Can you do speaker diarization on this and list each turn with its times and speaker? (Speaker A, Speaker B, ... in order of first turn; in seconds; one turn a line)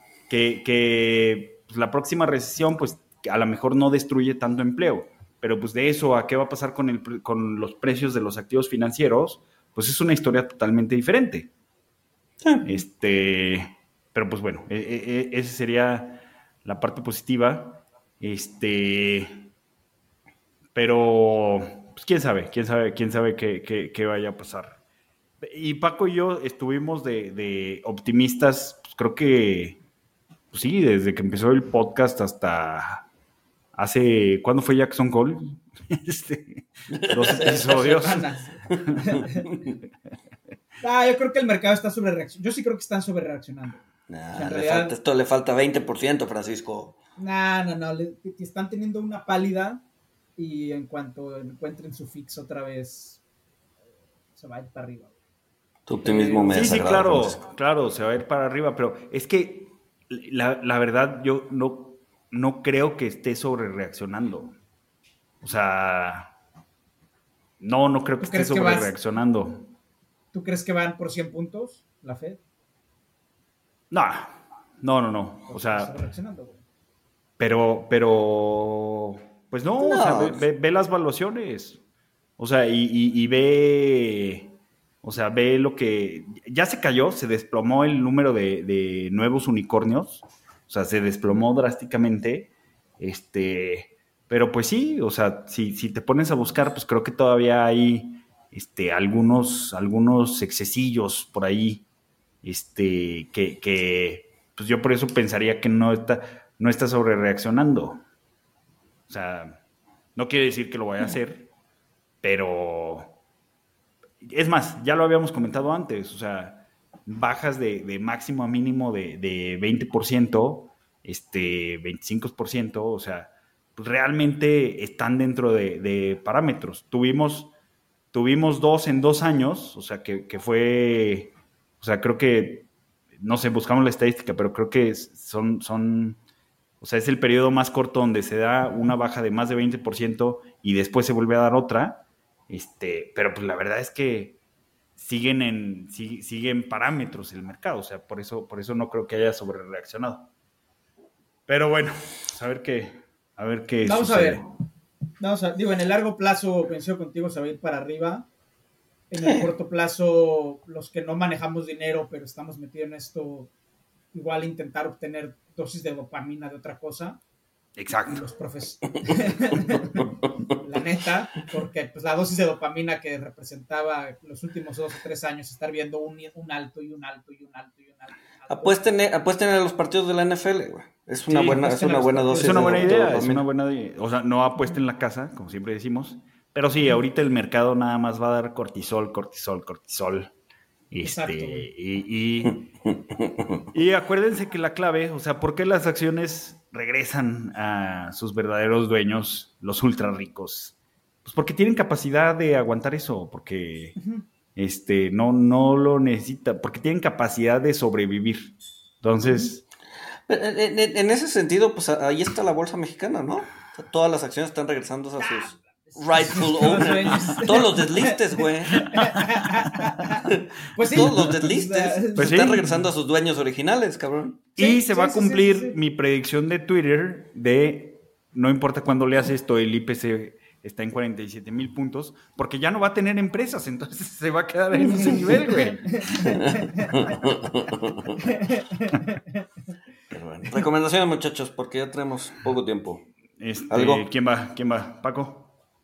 Speaker A: 0.3-11.5
Speaker B: 12.4-12.7
Speaker A: 12.6-19.5
Speaker A: 20.7-24.8
Speaker A: 25.4-29.8
Speaker A: 30.5-33.0
Speaker A: 33.7-38.2
Speaker B: 36.9-37.8
Speaker C: 37.6-39.5
Speaker C: 40.8-43.8
Speaker B: 44.1-47.0
Speaker C: 44.3-44.9
Speaker C: 47.2-49.8
Speaker C: 50.4-53.2
Speaker C: 54.4-55.1
Speaker B: 55.9-57.4
Speaker C: 56.0-56.7
Speaker A: 56.5-64.5
Speaker A: 65.4-66.3
Speaker A: 67.6-69.7
Speaker C: 68.2-68.9
Speaker C: 70.3-72.4
Speaker A: 73.9-75.9
Speaker C: 75.5-76.6
Speaker A: 77.4-81.8
Speaker B: 79.8-80.4
Speaker A: 82.4-101.8
Speaker A: 102.4-108.0
Speaker A: 109.1-109.6
Speaker A: 110.2-111.5
Speaker A: 112.2-113.2
Speaker A: 114.2-127.5
Speaker A: 128.1-136.2
Speaker A: 136.8-144.4
Speaker A: 145.0-150.3
Speaker A: 151.5-154.4
Speaker C: 153.8-154.4
Speaker C: 155.2-158.3
Speaker C: 159.1-163.5
Speaker C: 164.1-167.2
Speaker A: 167.8-168.2
Speaker C: 168.1-170.1
Speaker C: 170.6-178.8
Speaker B: 178.5-183.4
Speaker C: 181.3-183.2
Speaker A: 182.3-190.3
Speaker A: 190.9-192.6
Speaker C: 191.0-191.7
Speaker B: 192.9-193.6
Speaker A: 193.7-203.9
Speaker C: 204.0-204.2
Speaker A: 204.6-209.6
Speaker C: 209.2-209.5
Speaker B: 210.3-218.9
Speaker C: 215.2-222.7
Speaker A: 219.0-219.3
Speaker B: 220.3-224.5
Speaker A: 221.0-221.3
Speaker A: 222.2-222.8
Speaker A: 224.6-236.4
Speaker C: 224.6-225.8
Speaker C: 234.8-236.9
Speaker B: 236.2-238.2
Speaker C: 238.2-239.4
Speaker B: 240.1-243.1
Speaker A: 243.4-245.5
Speaker B: 243.7-244.0